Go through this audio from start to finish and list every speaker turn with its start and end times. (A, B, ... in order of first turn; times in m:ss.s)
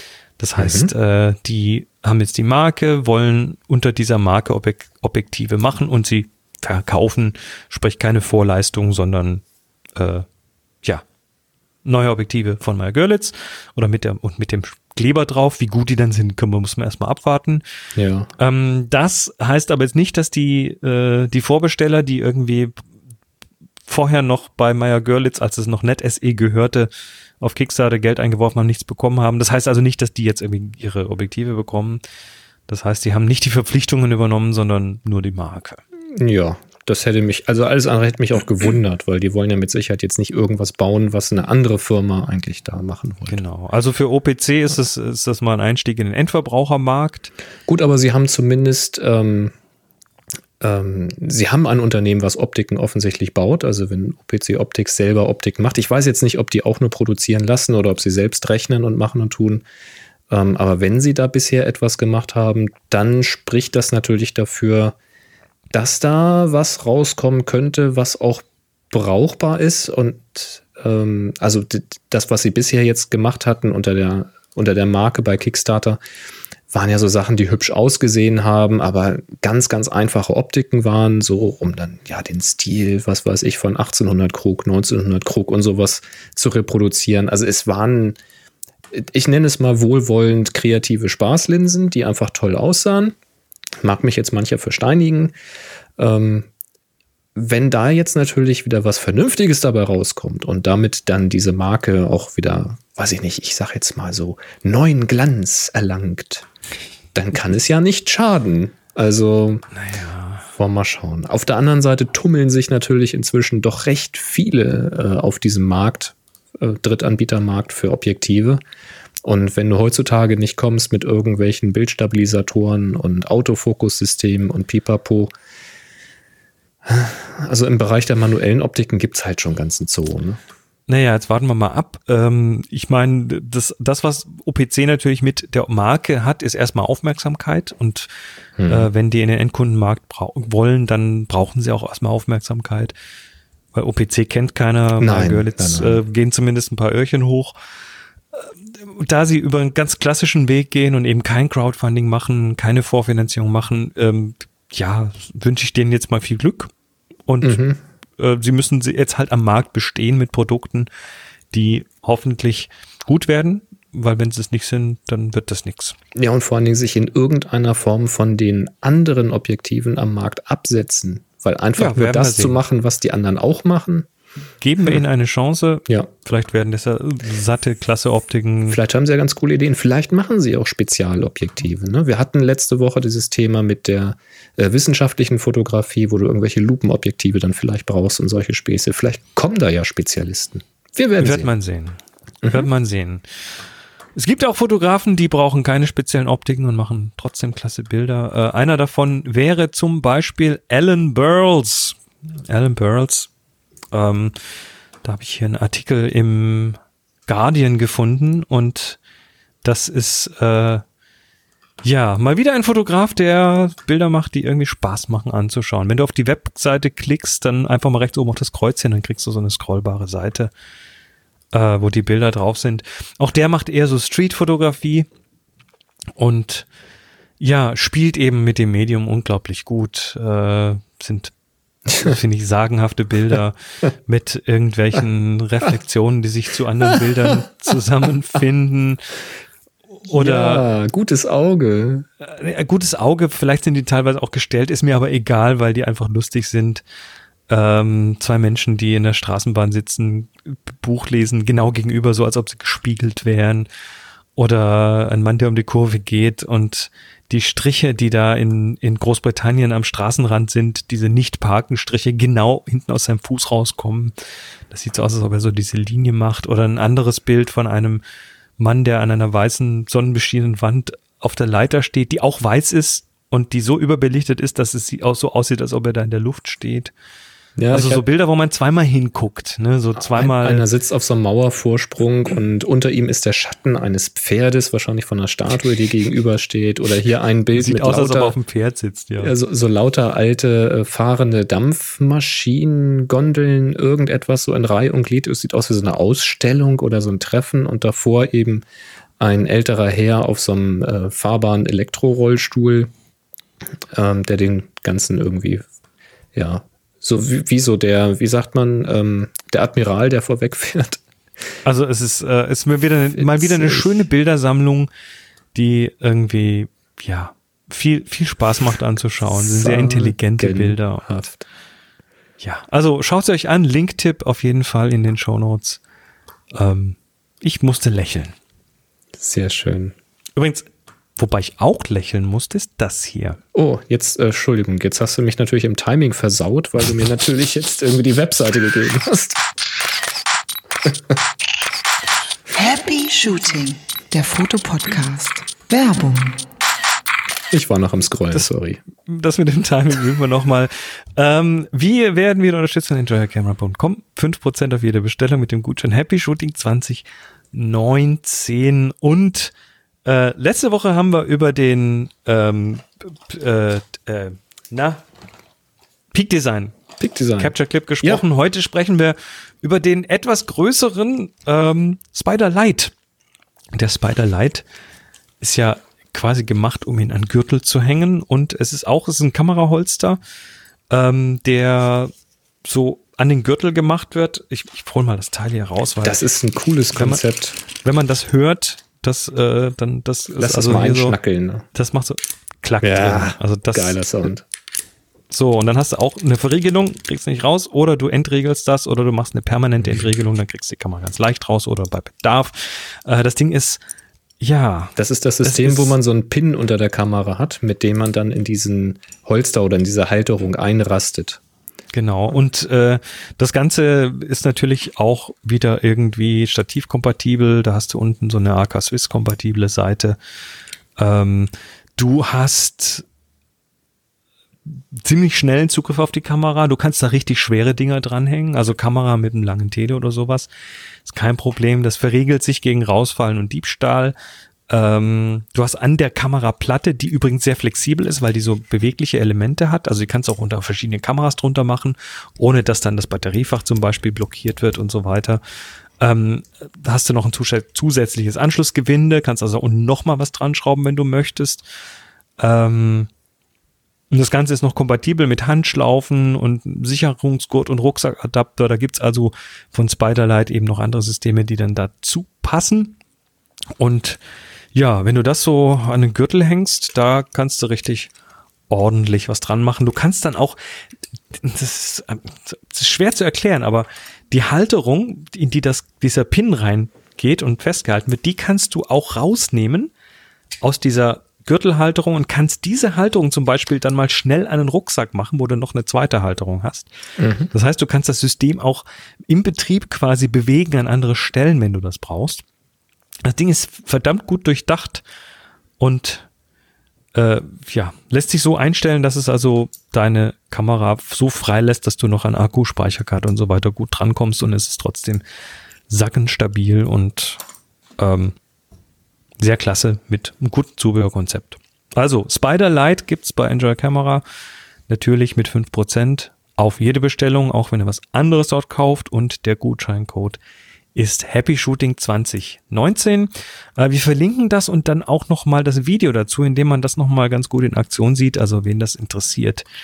0:00.4-0:09.4 A
0:00.6-0:00.9 B
0:09.9-0:10.3 A
0:11.8-0:17.6 A
0:18.0-0:18.3 B
0:18.4-0:22.8 A
0:23.9-0:32.0 A
0:32.7-0:35.8 A
0:36.1-0:43.4 B
0:43.3-0:47.3 A
0:47.7-0:49.5 B
0:50.6-0:59.6 B
1:00.3-1:05.0 B
1:05.7-1:16.0 B
1:16.7-1:28.2 B
1:28.9-1:33.1 B
1:33.8-1:35.3 B
1:36.0-1:36.5 B
1:37.4-1:46.5 B
1:47.1-1:49.6 B
1:49.7-1:50.5 A
1:50.5-1:58.6 B
1:59.2-2:05.3 B
2:06.8-2:10.4 B
2:10.9-2:18.1 A
2:18.6-2:18.9 B
2:18.7-2:22.9 A
2:23.7-2:27.6 A
2:25.0-2:26.0 B
2:28.3-2:36.7 A
2:37.3-2:37.6 A
2:37.4-2:37.8 B
2:38.2-2:40.9 A
2:41.5-2:46.0 A
2:46.1-2:54.1 B
2:51.8-2:52.6 A
2:54.6-2:58.8 A
2:58.7-3:11.5 B
3:11.2-3:13.2 A
3:12.4-3:12.7 B
3:14.1-3:23.3 A
3:23.9-3:24.4 A
3:25.0-3:29.0 A
3:29.6-3:30.8 A
3:31.8-3:40.5 A
3:41.5-3:45.1 A
3:46.1-3:46.7 A
3:47.4-3:51.3 A
3:51.9-3:52.1 B
3:52.0-3:59.0 A
4:00.1-4:00.6 A
4:00.1-4:02.0 B
4:02.2-4:06.8 A
4:07.5-4:13.7 A
4:14.4-4:24.1 A
4:24.7-4:28.0 A
4:28.6-4:36.9 A
4:37.6-4:38.0 B
4:37.7-4:40.6 A
4:40.0-4:48.4 B
4:47.5-4:49.3 A
4:49.2-4:58.6 B
4:59.2-5:02.9 B
5:03.9-5:05.6 B
5:06.3-5:11.0 B
5:11.6-5:14.9 A
5:13.2-5:14.0 B
5:15.5-5:21.0 A
5:19.4-5:21.4 B
5:22.4-5:25.8 A
5:26.5-5:28.3 A
5:29.2-5:29.9 B
5:30.4-5:33.4 A
5:33.5-5:39.4 B
5:42.5-5:46.4 C
5:47.5-5:48.8 B
5:49.0-5:59.5 A
6:00.0-6:05.0 A
6:06.1-6:06.7 A
6:07.0-6:08.2 B
6:07.4-6:12.9 A
6:13.7-6:14.6 A
6:15.4-6:20.2 A
6:20.9-6:22.1 A
6:22.6-6:26.2 A
6:26.0-6:27.6 B
6:26.9-6:31.2 A
6:30.4-6:31.6 B
6:31.7-6:34.0 A
6:32.8-6:34.4 B
6:35.3-6:43.8 A
6:44.4-6:46.0 A
6:45.0-6:51.4 B
6:51.9-7:00.2 A
7:01.0-7:03.0 A
7:04.6-7:10.5 A
7:11.0-7:14.2 A
7:14.7-7:25.4 A
7:26.0-7:31.6 A
7:32.4-7:33.1 A
7:34.1-7:43.0 A
7:43.8-7:44.2 A
7:44.7-7:48.1 A
7:48.7-7:50.6 A
7:51.3-7:59.9 A
8:00.6-8:06.9 A
8:07.2-8:07.5 B
8:07.5-8:12.4 A
8:13.2-8:15.0 A
8:15.8-8:16.3 A
8:17.1-8:25.2 A
8:25.9-8:27.4 A
8:28.0-8:28.4 A
8:29.4-8:34.2 A
8:34.9-8:40.4 A
8:40.9-8:49.6 A